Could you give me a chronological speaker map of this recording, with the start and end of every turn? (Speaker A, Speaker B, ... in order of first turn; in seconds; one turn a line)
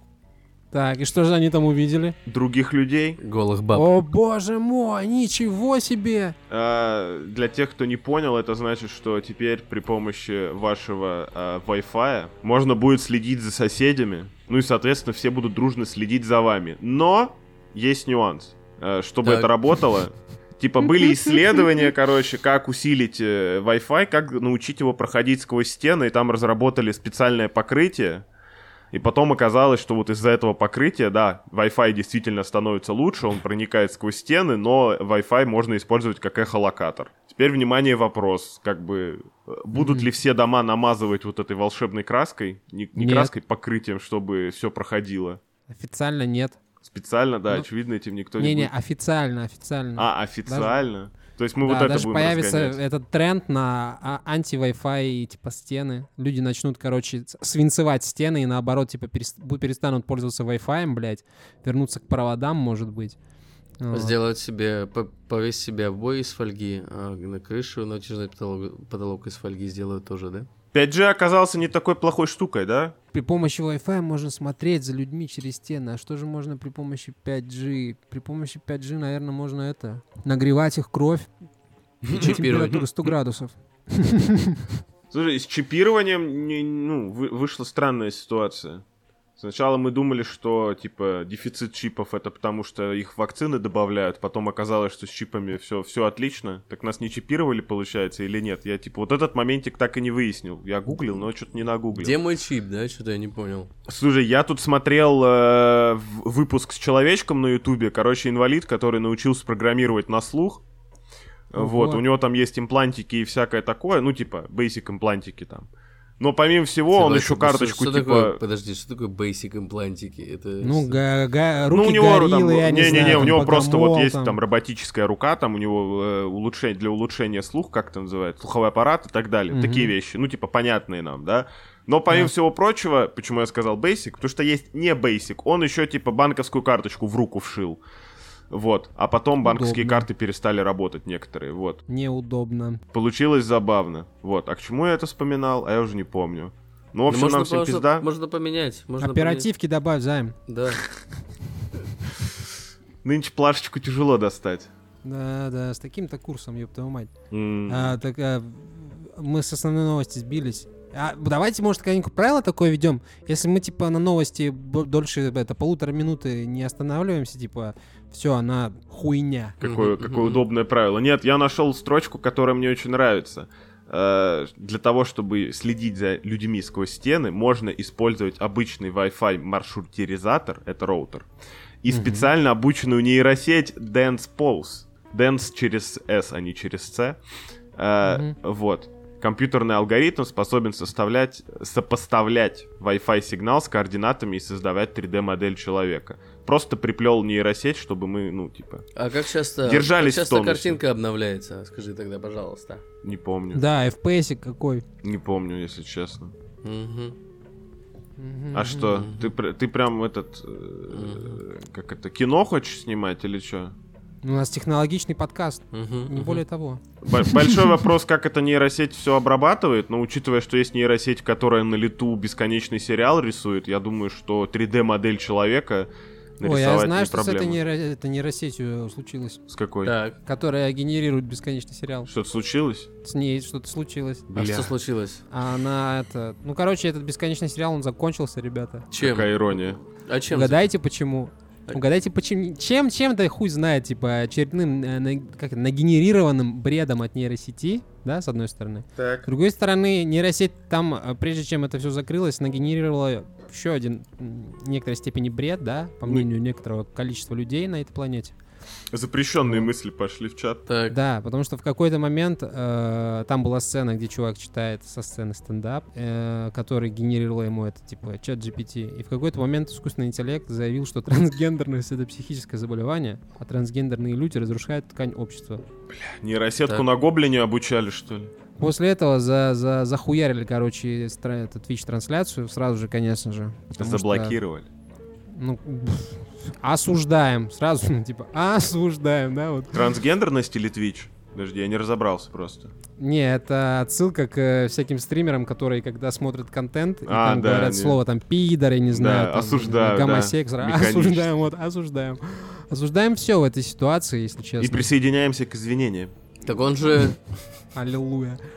Speaker A: 0.7-2.2
Speaker B: 2.3-3.2
Speaker C: 3.2-3.9
Speaker A: 3.7-6.4
Speaker B: 6.5-28.3
Speaker C: 19.2-19.5
Speaker B: 28.9-45.4
Speaker A: 39.7-40.1
Speaker A: 43.0-43.3
Speaker A: 45.7-46.6
Speaker B: 46.8-48.7
Speaker A: 48.4-50.8
Speaker B: 50.0-52.8
Speaker A: 51.6-63.2
Speaker A: 63.8-64.2
Speaker C: 63.9-70.5
Speaker B: 70.7-73.0
Speaker A: 73.1-81.3
Speaker C: 82.0-82.9
Speaker A: 82.1-84.7
Speaker B: 85.1-88.8
Speaker B: 89.4-102.2
Speaker C: 101.9-103.7
Speaker B: 103.9-110.6
Speaker B: 111.5-115.7
Speaker A: 111.6-112.0
Speaker B: 116.2-118.4
Speaker C: 116.9-121.0
Speaker A: 120.6-124.4
Speaker B: 121.7-137.8
Speaker A: 129.5-129.9
Speaker B: 138.5-141.8
Speaker A: 139.4-140.1
Speaker A: 141.9-142.8
Speaker B: 142.9-148.1
Speaker C: 147.1-149.5
Speaker A: 149.0-150.4
Speaker C: 150.5-150.8
Speaker B: 153.0-154.7
Speaker A: 155.0-157.1
Speaker B: 157.3-157.9
Speaker A: 157.7-169.6
Speaker C: 169.6-170.4
Speaker B: 169.6-181.3
Speaker B: 181.8-187.2
Speaker A: 181.9-182.3
Speaker B: 187.8-198.8
Speaker A: 188.1-188.3
Speaker C: 199.0-202.8
Speaker B: 199.6-200.8
Speaker B: 203.0-203.6
Speaker A: 203.5-204.8
Speaker B: 205.0-206.3
Speaker C: 206.6-207.2
Speaker A: 208.2-209.0
Speaker B: 208.5-213.8
Speaker C: 208.9-209.3
Speaker C: 210.9-211.4
Speaker A: 214.2-217.8
Speaker C: 215.7-216.4
Speaker B: 217.0-227.6
Speaker A: 226.4-229.4
Speaker B: 229.5-229.9
Speaker C: 229.8-230.2
Speaker A: 230.3-232.1
Speaker B: 232.1-232.9
Speaker A: 233.0-234.3
Speaker B: 234.3-234.7
Speaker C: 234.3-235.2
Speaker A: 235.3-238.9
Speaker C: 238.9-239.3
Speaker B: 239.0-239.8
Speaker C: 240.1-240.7
Speaker A: 240.3-258.4
Speaker B: 249.0-249.3
Speaker B: 258.9-260.6
Speaker A: 259.4-259.7
Speaker C: 260.7-261.0
Speaker A: 260.9-275.6
Speaker B: 275.9-278.3
Speaker A: 278.6-284.4
Speaker B: 283.8-284.7
Speaker A: 285.3-289.8
Speaker B: 289.7-292.7
Speaker A: 293.0-304.9
Speaker B: 297.1-298.0
Speaker B: 298.9-301.3
Speaker B: 304.6-306.1
Speaker C: 306.4-307.3
Speaker A: 307.8-308.4